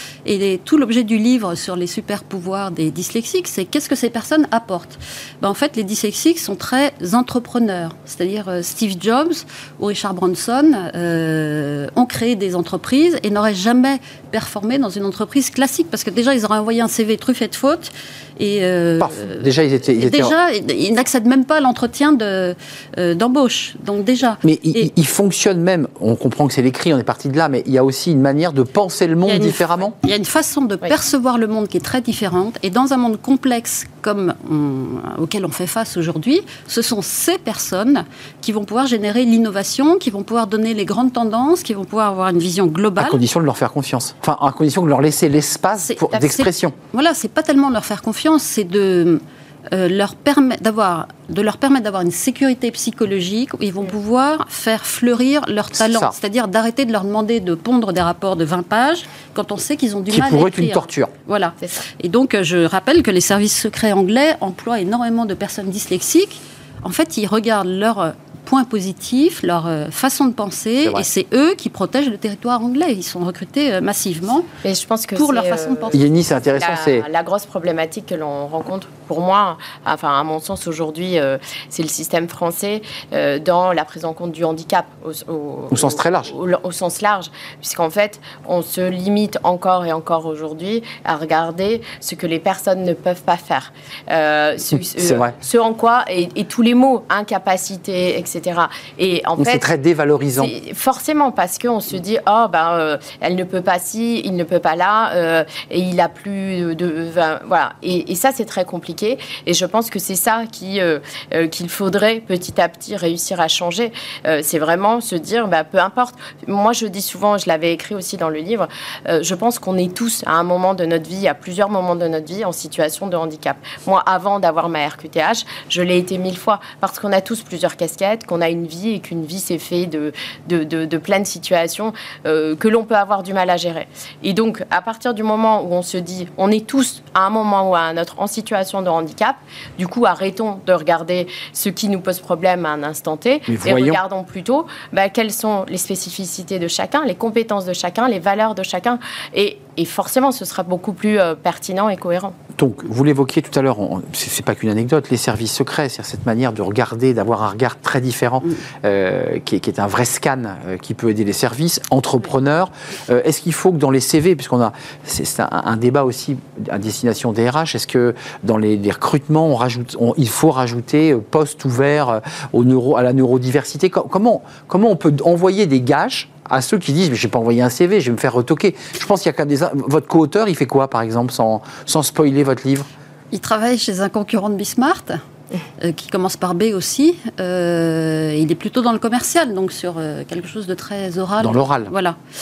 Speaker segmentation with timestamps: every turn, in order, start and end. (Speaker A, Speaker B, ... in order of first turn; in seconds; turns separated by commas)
Speaker A: 0.2-24.9, Speaker B: 19.0-20.3, Speaker B: 24.4-29.9, Speaker A: 29.2-43.2, Speaker B: 43.0-46.8, Speaker A: 45.8-74.5, Speaker B: 55.7-56.1, Speaker B: 60.1-61.1, Speaker C: 74.6-99.7, Speaker A: 75.2-76.0, Speaker B: 75.9-77.0, Speaker B: 85.7-86.3, Speaker B: 94.9-95.3, Speaker B: 99.4-100.5, Speaker C: 100.4-152.4, Speaker B: 143.5-144.0, Speaker B: 152.6-182.9, Speaker A: 183.3-185.2, Speaker A: 185.8-192.2, Speaker B: 191.4-191.9